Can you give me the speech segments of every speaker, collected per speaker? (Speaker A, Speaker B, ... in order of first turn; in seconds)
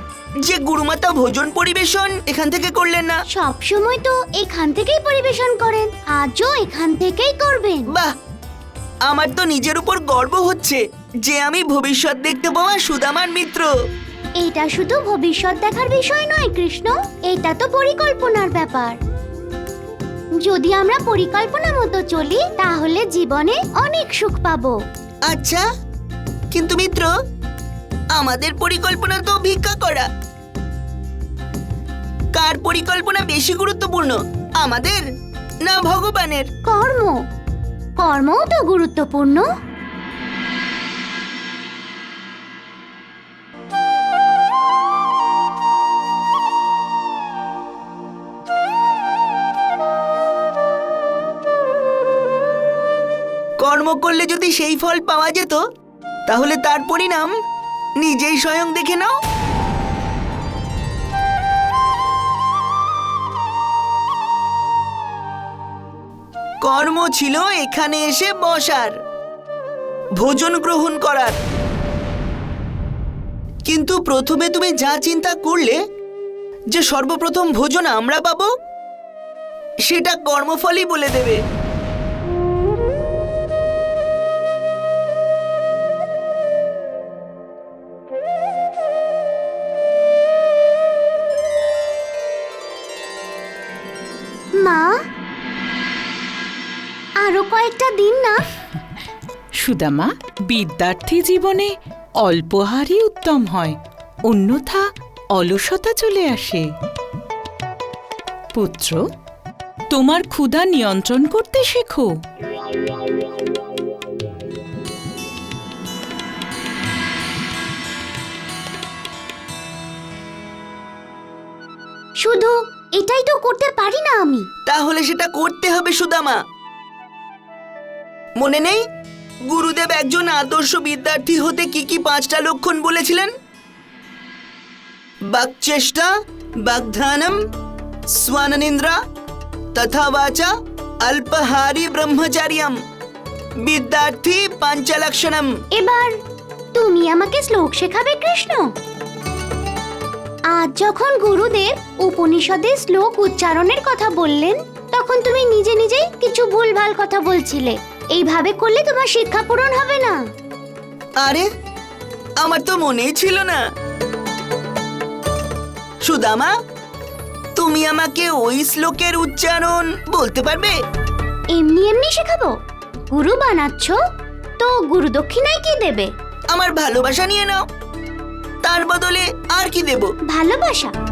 Speaker A: 0.5-3.2, 9.1-13.7, 25.3-25.6, 26.5-27.1, 28.1-30.1, 32.3-35.0, 35.6-36.5, 53.6-55.6, 56.3-57.3, 58.0-59.1, 66.6-68.9, 70.2-71.4, 73.7-75.8, 76.7-78.5, 79.9-81.4, 124.7-126.4, 128.4-128.8, 129.5-133.3, 135.3-136.1, 136.7-137.4, 138.2-138.9, 139.7-140.5, 141.0-142.8, 143.6-145.5, 162.4-163.6, 166.0-166.5, 167.6-170.7, 176.5-177.6, 178.6-180.1
Speaker B: 3.3-7.8, 14.4-18.9, 20.4-24.8, 36.6-37.2, 38.0-39.5, 94.6-94.9, 97.2-98.4, 122.2-124.5, 145.7-146.1, 146.7-148.6, 150.5-160.2, 171.5-172.5, 173.1-174.0, 174.6-176.1, 180.3-180.9
Speaker C: 99.6-103.8, 104.3-104.8, 105.3-106.7, 108.5-109.0, 109.9-112.1